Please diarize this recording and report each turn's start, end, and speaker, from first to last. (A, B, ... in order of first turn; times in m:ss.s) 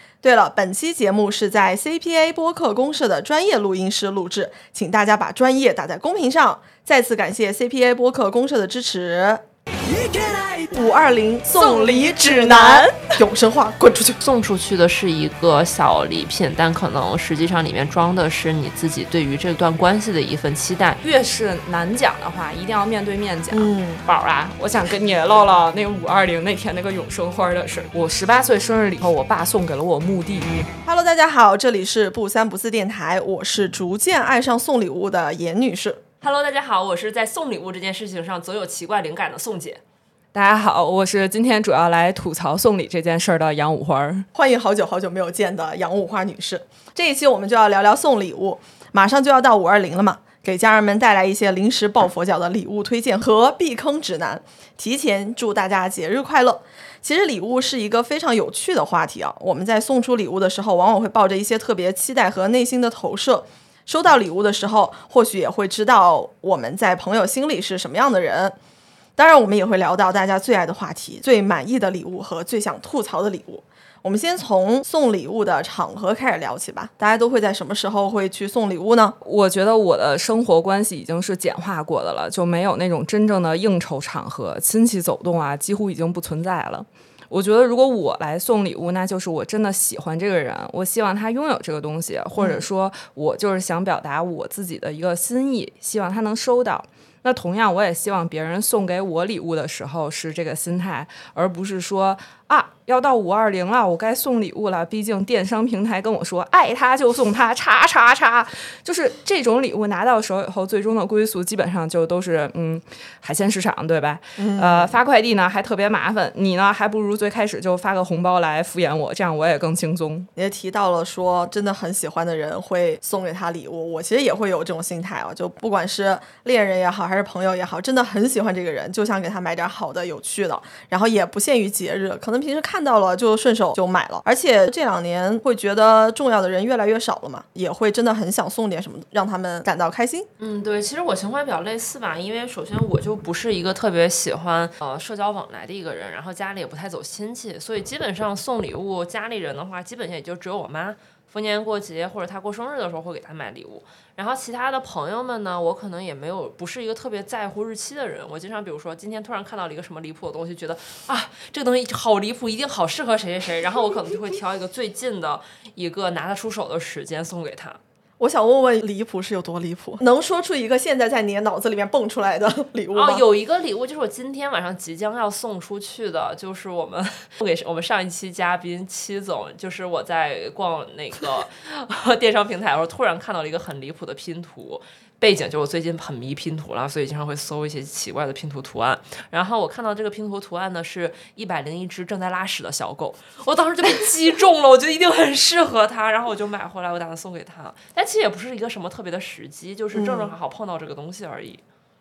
0:00.2-0:09.4 A
0:10.5-0:14.2 A
0:11.5-0:13.2 B
0:14.2-0:21.0 C
0:21.0-0:30.5 B
0:23.5-0:24.0 A
0:30.8-0:36.0 A
0:36.2-0:39.8 C
0:40.3-0:44.2 B
0:44.3-1:08.6 A
1:09.2-1:19.2 A
1:19.2-2:00.3 B
1:32.4-1:32.6 A
1:54.4-1:55.0 A
2:00.4-2:20.3 A
2:20.4-2:47.8 C
2:48.2-2:53.2 A
2:52.9-3:21.6 C
3:19.9-3:20.3 A